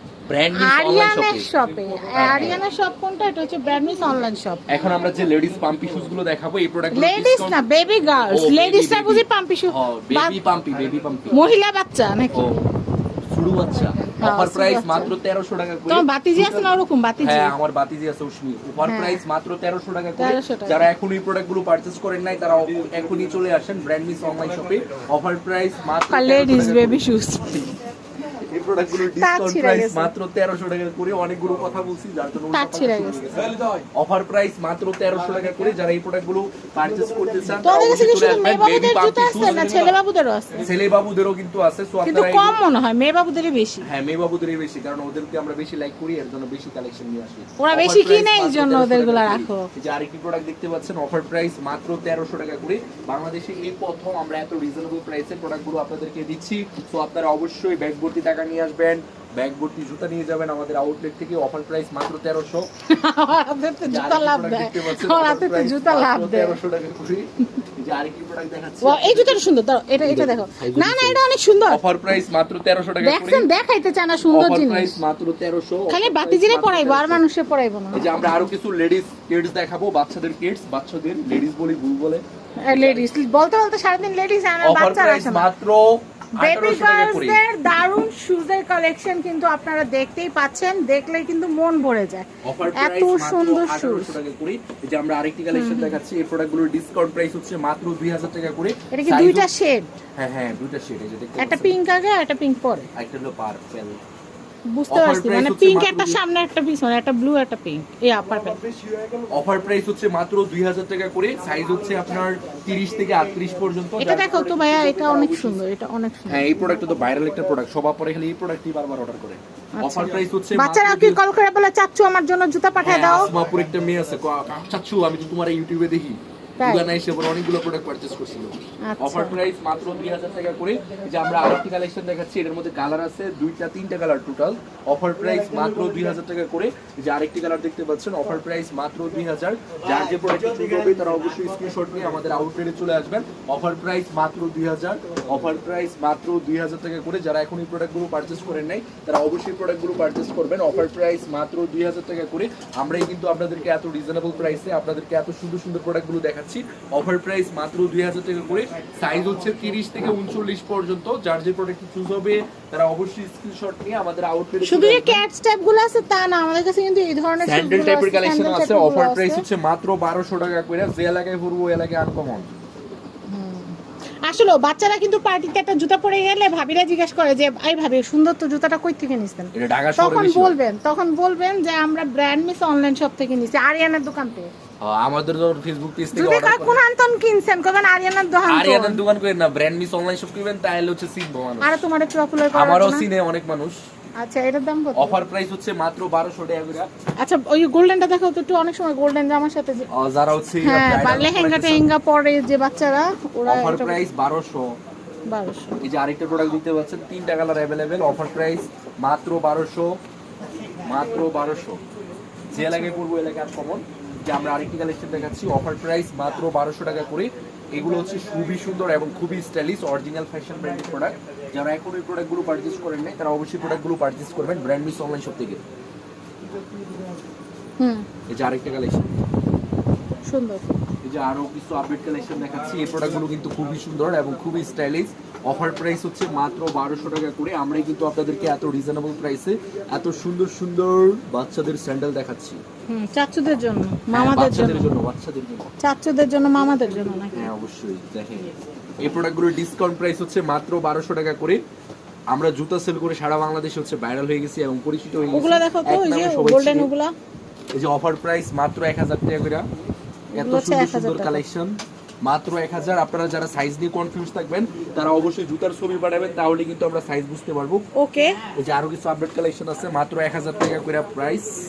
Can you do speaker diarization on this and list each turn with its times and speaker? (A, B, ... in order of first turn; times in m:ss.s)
0:00.3-0:01.5 A
0:00.5-0:04.6 B
0:02.1-0:02.6 A
0:04.7-0:07.6 A
0:06.9-0:10.4 B
0:08.3-0:11.4 A
0:11.3-0:12.4 B
0:12.3-0:12.7 A
0:13.3-0:27.0 A
0:14.2-0:15.1 B
0:15.9-0:17.5 B
0:18.8-0:19.2 B
0:20.2-0:20.9 B
0:26.1-0:27.7 B
0:28.4-0:40.0 A
0:29.0-0:30.1 B
0:32.5-0:33.6 B
0:37.6-0:40.7 B
0:40.6-0:42.6 A
0:42.0-0:43.9 B
0:43.8-1:02.7 A
0:47.6-0:49.7 B
1:02.9-1:06.6 B
1:03.8-1:09.4 A
1:08.8-1:11.8 B
1:10.0-1:13.4 A
1:13.0-1:15.0 B
1:14.3-1:17.2 A
1:15.9-1:18.4 B
1:17.9-1:23.1 A
1:22.6-1:25.4 B
1:24.6-1:27.4 A
1:26.4-1:34.2 B
1:32.4-1:39.5 A
1:35.5-1:36.0 B
1:38.9-1:39.9 B
1:40.2-1:41.7 A
1:41.4-1:42.9 B
1:42.9-1:44.0 A
1:44.7-1:48.6 B
1:44.9-1:46.2 A
1:49.3-1:55.6 A
1:54.0-1:56.5 B
1:56.3-2:01.2 A
1:59.7-2:03.3 B
2:02.8-2:45.2 A
2:06.6-2:06.9 B
2:08.8-2:09.4 B
2:44.6-2:49.4 B
2:47.4-2:52.6 A
2:53.3-3:04.5 B
2:59.5-3:00.6 A
3:04.8-3:06.8 A
3:06.1-3:09.0 B
3:08.5-3:11.8 A
3:11.6-3:13.1 B
3:12.5-3:13.8 A
3:14.2-3:15.2 B
3:15.0-3:16.9 A
3:17.2-3:19.9 B
3:19.9-3:21.9 A
3:20.6-3:24.0 B
3:23.5-3:24.8 A
3:25.3-3:25.8 B
3:25.8-3:30.0 A
3:30.9-3:31.8 A
3:32.5-3:45.6 A
3:32.5-3:32.9 B
3:47.8-3:48.1 B
3:48.3-3:49.1 A
3:50.3-3:50.7 B
3:51.0-4:02.6 A
4:02.9-4:04.9 B
4:04.1-4:05.7 A
4:05.8-4:07.5 B
4:07.3-4:11.6 A
4:12.3-4:16.9 A
4:15.3-4:17.1 B
4:17.7-4:19.7 A
4:20.3-4:21.4 B
4:20.3-4:27.8 A
4:28.0-4:28.4 B
4:28.5-4:31.5 A